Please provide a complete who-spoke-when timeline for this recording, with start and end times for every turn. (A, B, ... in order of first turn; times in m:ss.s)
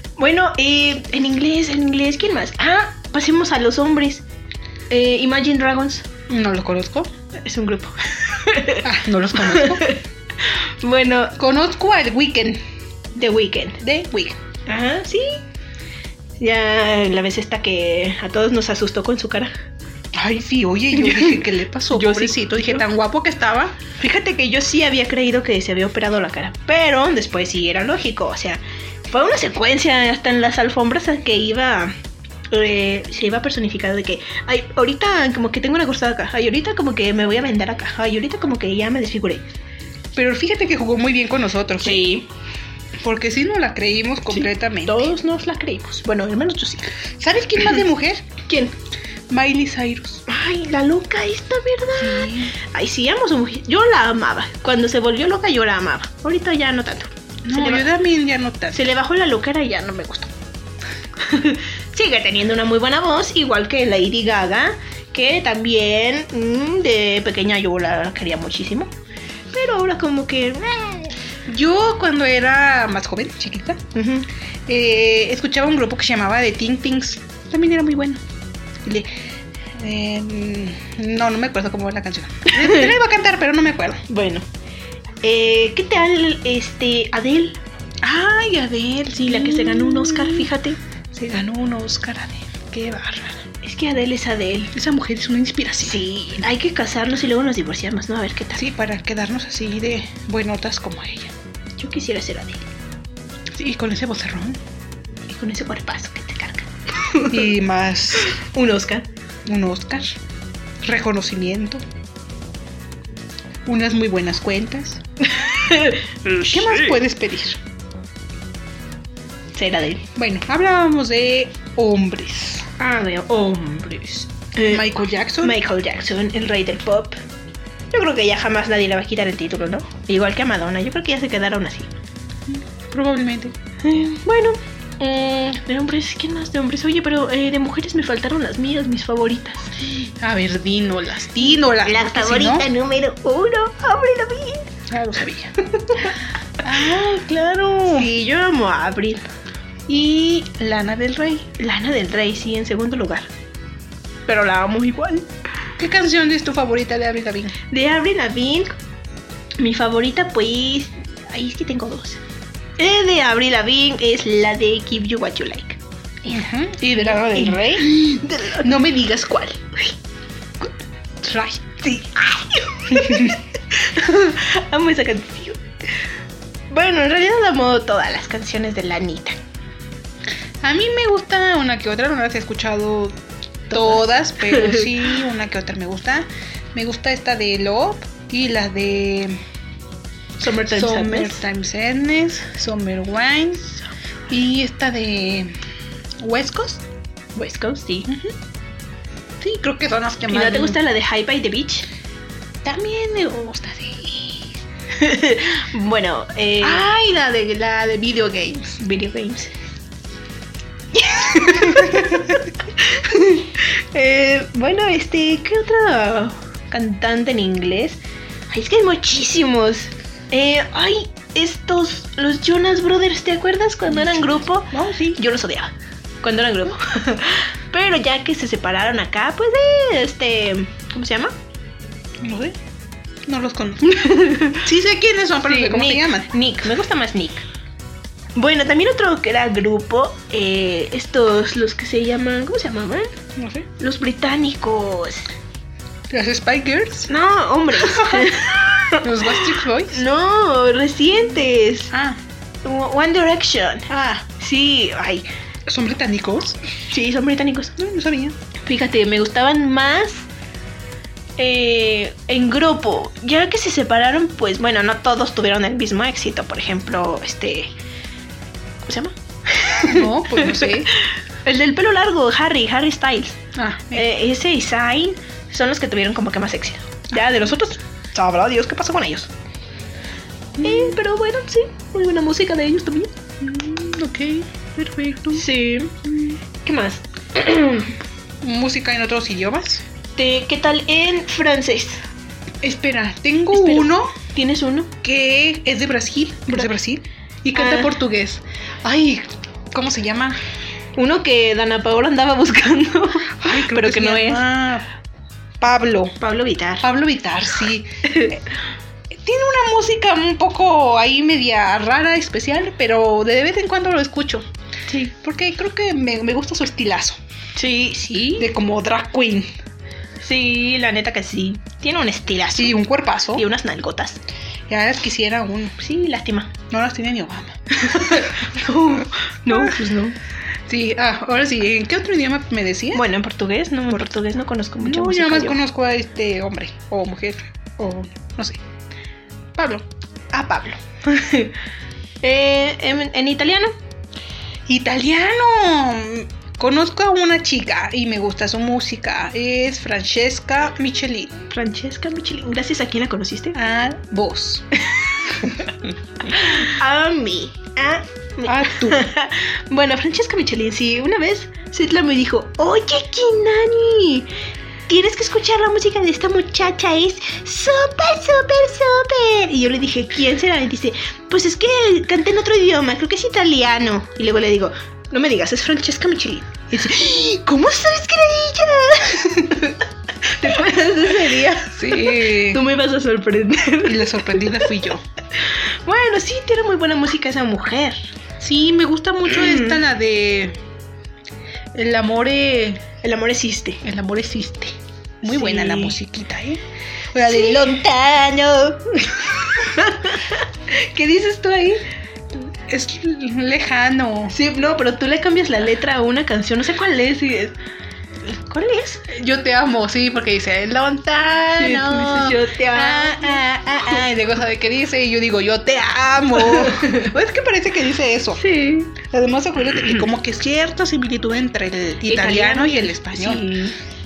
0:00.2-0:04.2 A
0:04.9-0:06.1 A
0:06.3-0:07.1 B
0:07.4-0:11.4 A
0:08.8-0:09.9 B
0:11.4-0:12.6 B
0:13.2-0:13.8 A
0:13.8-0:14.4 B
0:14.7-0:15.4 A
0:16.4-0:19.5 A
0:20.1-0:23.8 B
0:21.0-0:21.4 A
0:21.9-0:22.8 A
0:24.0-0:31.9 A
0:32.5-0:39.4 A
0:40.2-0:42.0 B
0:41.8-0:42.3 A
0:43.0-0:45.1 B
0:44.3-0:46.9 A
0:47.2-0:48.3 B
0:48.5-0:48.7 A
0:49.3-0:50.2 B
0:50.3-0:57.9 A
0:52.0-0:52.6 B
0:57.4-0:58.8 B
0:58.7-1:00.3 A
1:01.2-1:08.9 A
1:09.5-1:11.2 A
1:11.5-1:13.8 B
1:13.9-1:14.3 A
1:14.7-1:18.2 B
1:18.8-1:19.1 B
1:19.8-1:24.0 B
1:22.5-1:22.9 A
1:24.1-1:24.5 A
1:25.2-1:27.6 A
1:28.0-1:30.5 B
1:29.2-1:30.8 A
1:31.1-1:33.5 B
1:33.6-1:34.7 A
1:34.7-1:36.0 B
1:35.8-1:38.6 A
1:38.6-1:41.3 B
1:41.8-1:42.7 A
1:43.6-1:44.6 B
1:45.3-1:47.4 A
1:47.3-1:48.4 B
1:48.4-1:49.1 A
1:49.5-1:50.2 B
1:50.8-1:51.8 B
1:53.7-1:55.0 B
1:55.3-1:56.8 A
1:56.4-1:57.6 B
1:59.6-2:00.0 A
2:00.2-2:02.7 B
2:02.8-2:04.9 A
2:04.7-2:05.6 B
2:05.4-2:07.2 A
2:07.9-2:11.9 A
2:12.5-2:13.6 B
2:13.8-2:19.8 A
2:19.9-2:22.7 B
2:21.4-2:24.7 A
2:24.9-2:25.5 B
2:25.7-2:26.2 A
2:26.6-2:28.1 B
2:27.8-2:29.3 A
2:29.9-2:31.5 B
2:31.6-2:33.3 A
2:34.3-2:35.3 A
2:35.8-2:37.6 B
2:37.7-2:38.7 A
2:39.6-2:42.2 A
2:42.8-2:46.5 A
2:46.3-2:49.6 B
2:47.1-2:48.7 A
2:51.2-2:52.2 B
2:52.2-2:55.6 A
2:52.9-2:53.4 B
2:56.7-2:59.4 A
3:00.6-3:03.2 B
3:03.7-3:09.4 B
3:03.7-3:04.9 A
3:10.4-3:11.4 A
3:10.6-3:13.8 B
3:14.3-3:15.6 B
3:16.2-3:16.8 B
3:17.4-3:18.1 A
3:18.1-3:18.3 B
3:19.4-3:20.8 B
3:20.3-3:21.9 A
3:22.6-3:24.5 B
3:25.0-3:26.9 A
3:26.6-3:28.8 B
3:28.8-3:29.5 A
3:31.0-3:51.4 A
3:31.3-3:32.4 B
3:44.0-3:45.2 B
3:52.2-3:52.6 B
3:53.3-3:56.3 B
3:53.9-3:54.6 A
3:55.4-3:57.4 A
3:58.4-4:03.1 A
4:03.4-4:03.7 B
4:03.8-4:05.3 A
4:06.1-4:07.1 B
4:07.1-4:11.9 A
4:07.8-4:10.0 B
4:11.9-4:12.2 B
4:12.6-4:15.3 A
4:13.9-4:14.2 B
4:15.7-4:16.6 B
4:16.9-4:17.8 A
4:17.8-4:18.4 B
4:18.6-4:20.3 A
4:21.4-4:27.7 A
4:28.9-4:33.4 A
4:29.8-4:30.9 B
4:33.6-4:34.1 B
4:33.9-4:39.3 A
4:40.6-4:41.0 B
4:40.6-4:43.1 A
4:43.4-4:45.5 B
4:45.3-4:46.0 A
4:46.0-4:46.4 B
4:46.6-4:48.0 A
4:48.4-4:49.8 B
4:50.2-4:52.0 A
4:52.6-4:54.2 B
4:53.5-4:54.9 A
4:55.0-5:00.4 B
4:57.6-4:57.9 A
5:01.0-5:04.4 A
5:03.4-5:04.9 B
5:05.6-5:06.2 B
5:06.2-5:06.9 A
5:06.8-5:08.4 B
5:08.1-5:08.3 A
5:09.1-5:14.5 B
5:14.9-5:15.1 A
5:15.2-5:17.2 B
5:17.6-5:18.5 A
5:18.3-5:19.5 B
5:20.2-5:22.8 A
5:22.5-5:23.5 B
5:23.4-5:24.2 A
5:24.7-5:25.8 B
5:25.8-5:26.6 A
5:26.7-5:28.4 B
5:27.8-5:30.2 A
5:29.5-5:29.8 B
5:30.7-5:33.0 B
5:32.9-5:35.6 A
5:34.8-5:38.6 B
5:39.6-5:39.9 B
5:40.3-5:41.6 A
5:42.2-5:43.7 A
5:44.7-5:51.4 B
5:51.5-5:53.6 A
5:53.6-5:54.7 B
5:56.2-6:04.3 A
5:58.5-5:59.1 B
6:04.9-6:24.7 A
6:21.7-6:22.6 B
6:23.8-6:25.0 B
6:25.4-6:28.0 A
6:28.4-6:30.6 B
6:29.4-6:29.8 A
6:31.7-6:32.8 B
6:33.0-6:33.8 A
6:33.8-6:36.6 B
6:35.2-6:36.0 A
6:37.1-6:37.8 B
6:37.2-6:41.8 A
6:42.7-6:44.4 B
6:44.3-6:47.6 A
6:48.2-6:49.0 A
6:49.1-6:58.4 B
6:51.6-6:53.4 A
6:56.4-6:57.1 A
6:58.4-6:59.0 A
6:59.0-7:03.5 B
7:02.1-7:03.8 A